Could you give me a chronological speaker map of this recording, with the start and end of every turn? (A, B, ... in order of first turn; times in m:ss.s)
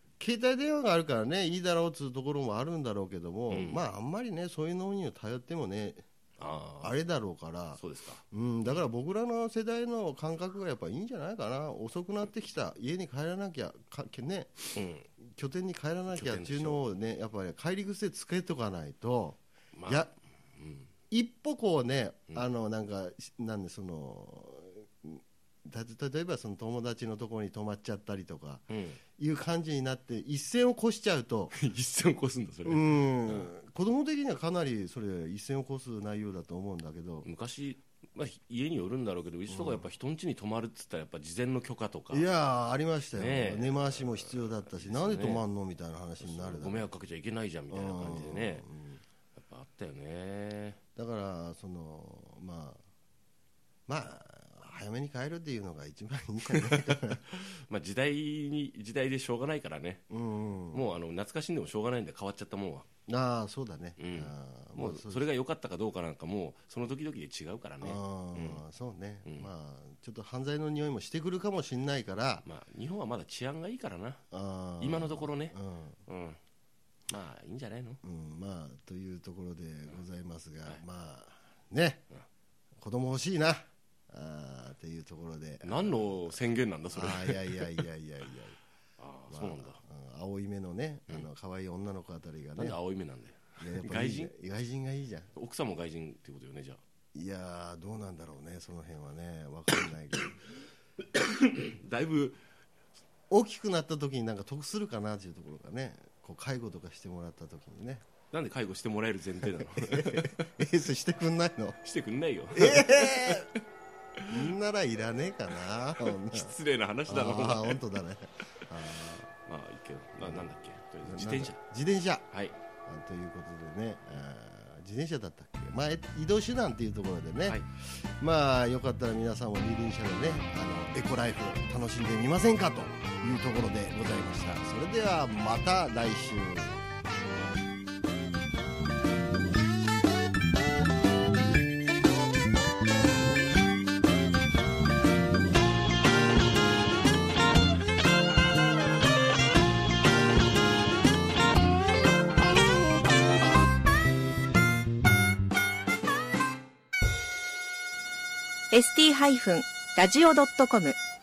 0:00.2-0:06.0 A
0:03.5-0:03.8 B
0:06.4-0:06.9 B
0:06.8-0:07.8 A
0:07.8-0:08.2 B
0:08.3-0:20.1 A
0:14.7-0:15.1 B
0:16.1-0:16.8 B
0:19.8-0:20.9 B
0:21.1-0:28.6 A
0:28.7-0:29.0 B
0:29.2-0:31.5 A
0:31.5-0:33.5 B
0:32.6-0:37.3 A
0:37.2-0:42.2 B
0:39.5-0:39.8 A
0:42.1-0:46.8 A
0:43.2-0:45.4 B
0:46.2-0:48.6 B
0:47.7-0:49.0 A
0:49.4-0:50.8 B
0:51.0-0:52.8 A
0:53.9-0:57.2 A
0:56.5-1:00.0 B
1:00.1-1:00.8 A
1:00.7-1:02.9 B
1:03.1-1:05.2 A
1:04.0-1:08.6 B
1:07.8-1:12.4 A
1:12.4-1:14.2 B
1:14.3-1:16.0 A
1:14.8-1:16.4 B
1:17.1-1:18.0 B
1:18.0-1:22.0 A
1:22.8-1:26.2 A
1:25.6-1:27.8 B
1:26.9-1:28.6 A
1:29.0-1:29.8 B
1:29.3-1:32.8 A
1:32.6-1:34.3 B
1:33.6-1:35.3 A
1:35.3-1:36.8 B
1:37.1-1:40.3 A
1:41.0-1:42.4 B
1:43.3-1:48.0 A
1:48.3-1:50.5 B
1:49.6-1:51.8 A
1:51.8-1:53.6 B
1:52.5-1:53.5 A
1:54.2-1:54.4 B
1:54.3-1:56.5 A
1:56.0-1:57.9 B
1:57.1-1:59.3 A
1:59.4-2:01.6 B
2:01.0-2:02.2 A
2:02.8-2:07.6 A
2:08.2-2:17.2 A
2:38.7-2:41.0 C